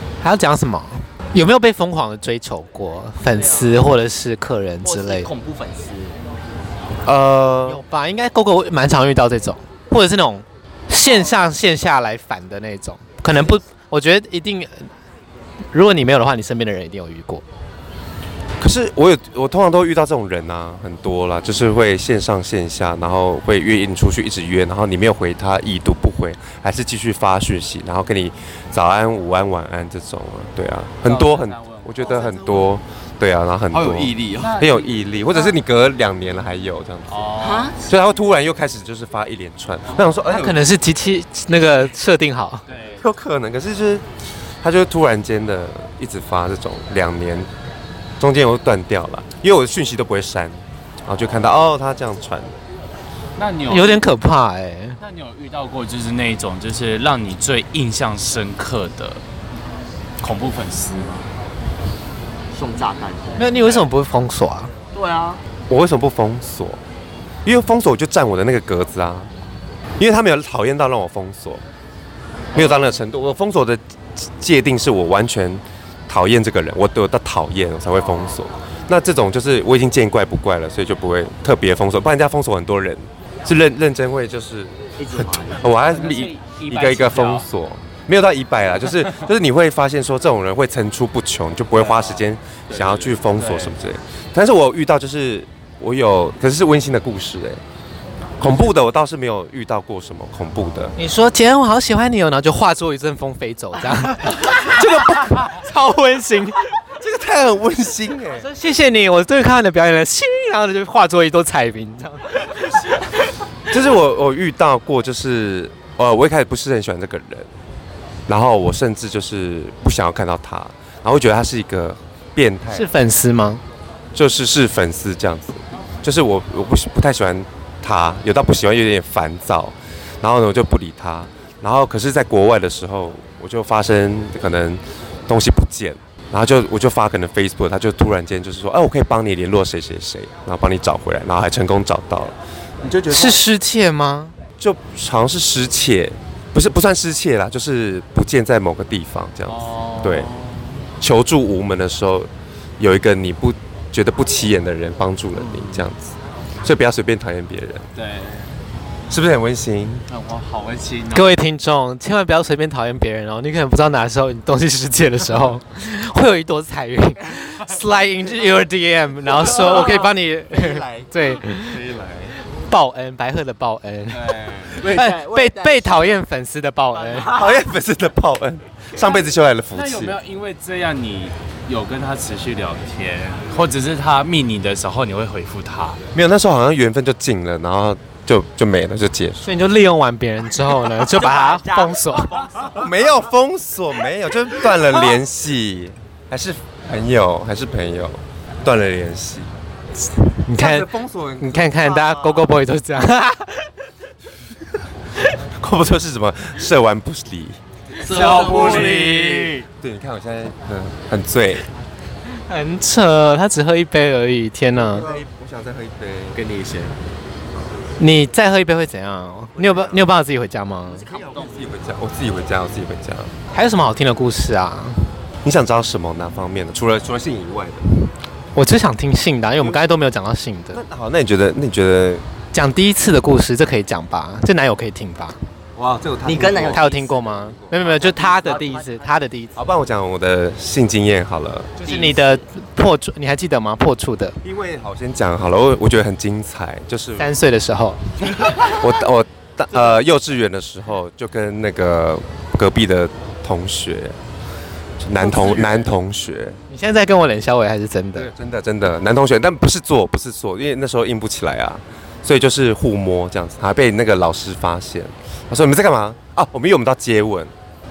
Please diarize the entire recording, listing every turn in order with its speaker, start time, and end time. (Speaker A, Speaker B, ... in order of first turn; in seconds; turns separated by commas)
Speaker A: 0.2-5.3, Speaker B: 3.2-3.9, Speaker B: 4.8-6.2, Speaker C: 7.0-7.8, Speaker A: 7.7-14.9, Speaker A: 15.7-17.4, Speaker C: 18.6-37.3, Speaker D: 31.1-32.5, Speaker E: 32.0-32.3, Speaker E: 33.7-34.5, Speaker D: 34.4-35.5, Speaker D: 37.1-37.7, Speaker B: 37.4-37.8, Speaker C: 37.8-40.6, Speaker A: 40.3-42.7, Speaker D: 42.7-43.1, Speaker C: 43.0-44.1, Speaker C: 44.6-47.5, Speaker C: 48.2-52.6, Speaker D: 53.4-54.1, Speaker A: 53.7-55.0, Speaker D: 55.0-59.2, Speaker D: 60.2-61.3, Speaker B: 62.5-63.8, Speaker A: 63.4-64.7, Speaker B: 64.9-65.4, Speaker C: 65.7-66.8, Speaker C: 67.5-69.3, Speaker C: 70.0-71.6, Speaker B: 72.5-72.8, Speaker C: 72.5-97.6, Speaker B: 85.0-85.7, Speaker D: 85.9-87.5, Speaker E: 91.8-93.2, Speaker D: 93.4-93.7, Speaker C: 98.4-101.0, Speaker A: 101.0-106.6, Speaker C: 107.0-108.5, Speaker A: 108.3-112.7, Speaker C: 113.7-117.5, Speaker C: 118.3-122.9, Speaker A: 122.7-123.6, Speaker C: 124.1-143.4, Speaker A: 143.1-144.3, Speaker C: 144.6-150.3, Speaker D: 149.5-150.6, Speaker C: 151.0-157.9, Speaker D: 158.0-158.5, Speaker C: 159.1-160.1, Speaker D: 160.1-161.3, Speaker A: 161.1-171.8, Speaker C: 170.6-171.1, Speaker C: 171.6-172.3, Speaker A: 172.5-177.4, Speaker D: 174.2-174.9, Speaker E: 174.7-176.0, Speaker B: 175.0-176.0, Speaker B: 176.9-177.7, Speaker C: 177.3-180.2, Speaker D: 179.7-186.0, Speaker C: 186.1-189.5, Speaker A: 189.4-192.4, Speaker B: 190.8-193.0, Speaker C: 192.7-199.5, Speaker A: 200.0-203.7, Speaker C: 200.6-202.6, Speaker C: 205.6-211.7, Speaker E: 208.0-209.6, Speaker D: 208.0-209.6, Speaker A: 212.5-215.1, Speaker C: 214.7-216.4, Speaker E: 216.3-217.0, Speaker A: 218.0-221.1, Speaker C: 219.6-220.1, Speaker B: 220.9-221.7, Speaker C: 221.1-223.3, Speaker A: 223.5-225.1, Speaker C: 225.4-227.8, Speaker A: 228.6-230.8, Speaker C: 229.6-230.0, Speaker C: 230.7-232.3, Speaker A: 232.5-235.4, Speaker C: 235.8-238.3, Speaker B: 236.2-237.0, Speaker A: 236.7-239.6, Speaker B: 237.9-239.1, Speaker C: 239.6-241.8, Speaker A: 241.8-244.4, Speaker B: 241.9-242.4, Speaker C: 244.4-247.4, Speaker A: 247.2-248.0, Speaker C: 248.3-254.2, Speaker C: 255.0-256.6, Speaker A: 255.2-255.7, Speaker A: 256.7-258.3, Speaker C: 258.1-267.5